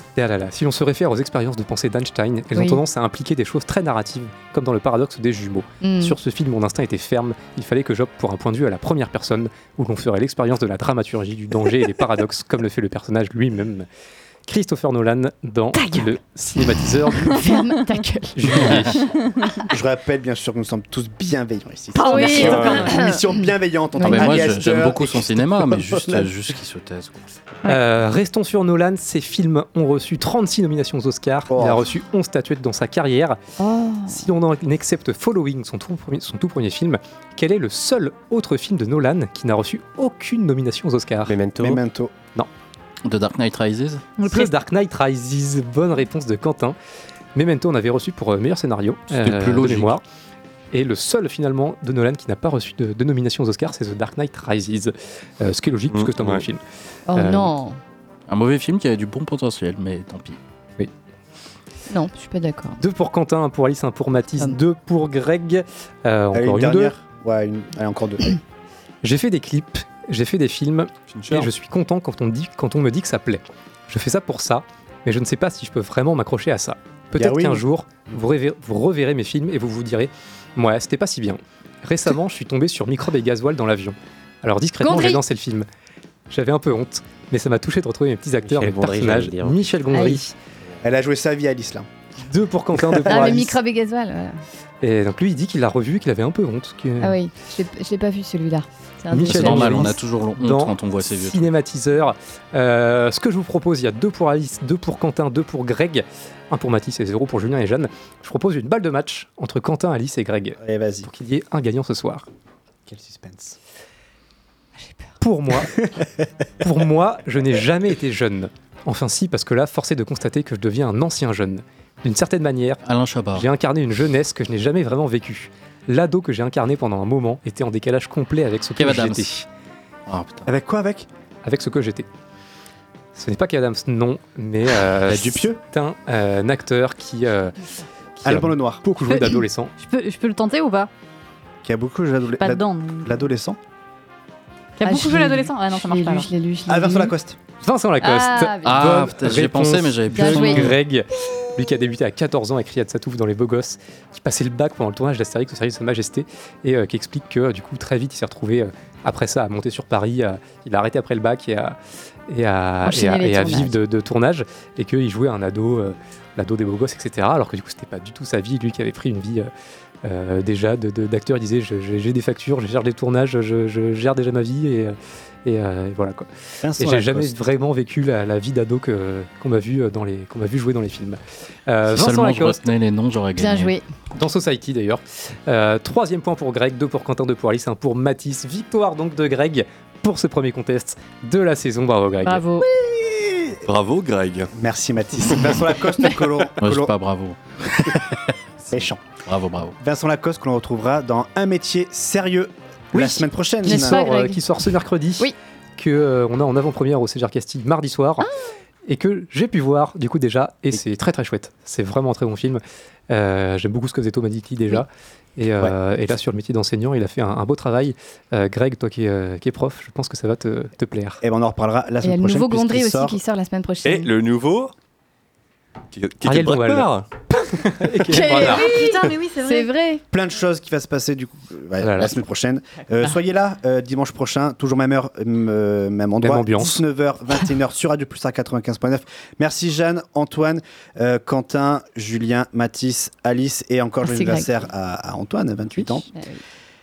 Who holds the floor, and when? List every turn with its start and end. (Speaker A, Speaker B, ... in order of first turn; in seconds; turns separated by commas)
Speaker A: 0.2-13.9, Speaker B: 2.5-2.8, Speaker B: 5.8-6.2, Speaker A: 14.5-17.4, Speaker B: 17.1-18.8, Speaker A: 18.4-18.9, Speaker C: 18.5-18.9, Speaker D: 18.9-19.6, Speaker E: 19.7-26.3, Speaker D: 22.0-22.8, Speaker B: 22.0-23.5, Speaker F: 22.3-22.9, Speaker B: 24.0-24.5, Speaker C: 24.1-27.3, Speaker A: 27.7-33.4, Speaker E: 31.5-31.9, Speaker B: 33.6-34.2, Speaker A: 34.1-41.4, Speaker G: 41.3-41.8, Speaker E: 41.6-42.1, Speaker C: 43.0-44.1, Speaker D: 44.2-44.5, Speaker A: 44.3-46.8, Speaker A: 47.4-50.0, Speaker C: 49.1-50.0, Speaker A: 50.7-56.6, Speaker F: 55.9-56.5, Speaker B: 57.1-57.8, Speaker A: 57.1-57.5, Speaker C: 58.3-60.4, Speaker B: 61.9-62.8, Speaker A: 62.8-66.9, Speaker E: 66.3-68.4, Speaker A: 69.0-85.7, Speaker F: 71.1-71.5, Speaker E: 77.1-77.6, Speaker B: 84.8-85.2, Speaker A: 86.3-90.3, Speaker G: 88.5-89.8, Speaker B: 89.9-90.2, Speaker E: 90.8-91.9, Speaker A: 92.2-93.5, Speaker E: 92.9-93.5, Speaker B: 93.1-94.4, Speaker A: 94.8-97.2, Speaker B: 97.0-100.0, Speaker A: 99.1-112.3, Speaker C: 99.2-101.5, Speaker E: 110.6-111.1, Speaker E: 112.9-113.6, Speaker A: 115.2-115.9, Speaker A: 116.6-122.8, Speaker C: 122.8-123.5, Speaker A: 123.3-129.5, Speaker C: 128.8-129.4, Speaker C: 130.1-130.5, Speaker E: 130.5-131.1, Speaker A: 131.4-132.1, Speaker A: 133.2-137.6, Speaker E: 135.1-135.6, Speaker A: 138.2-139.7, Speaker E: 138.2-138.8, Speaker D: 139.1-140.9, Speaker E: 141.6-143.6, Speaker D: 142.4-143.2, Speaker D: 144.8-146.3, Speaker B: 144.8-147.1, Speaker E: 146.7-147.4, Speaker A: 147.6-161.8, Speaker B: 148.0-149.0, Speaker C: 148.6-150.8, Speaker B: 150.1-150.8, Speaker A: 162.3-169.5, Speaker B: 162.8-163.7, Speaker A: 170.0-182.7, Speaker E: 176.6-177.3, Speaker C: 181.9-183.7, Speaker B: 183.4-183.9, Speaker A: 184.2-192.4, Speaker B: 192.2-192.7, Speaker E: 192.8-193.6, Speaker F: 193.7-194.5, Speaker E: 194.5-196.9, Speaker C: 196.6-198.3, Speaker E: 198.7-199.0, Speaker C: 199.3-199.8, Speaker E: 199.8-204.0, Speaker A: 202.9-208.3, Speaker B: 203.7-204.4, Speaker A: 208.9-221.2, Speaker E: 221.2-223.2, Speaker B: 222.0-224.1, Speaker F: 223.8-224.7, Speaker F: 225.9-227.1, Speaker A: 226.2-228.7, Speaker D: 228.1-229.7, Speaker B: 228.1-230.0, Speaker E: 230.1-246.1, Speaker A: 231.8-232.1, Speaker A: 236.2-236.8, Speaker B: 244.1-244.5, Speaker B: 246.1-246.4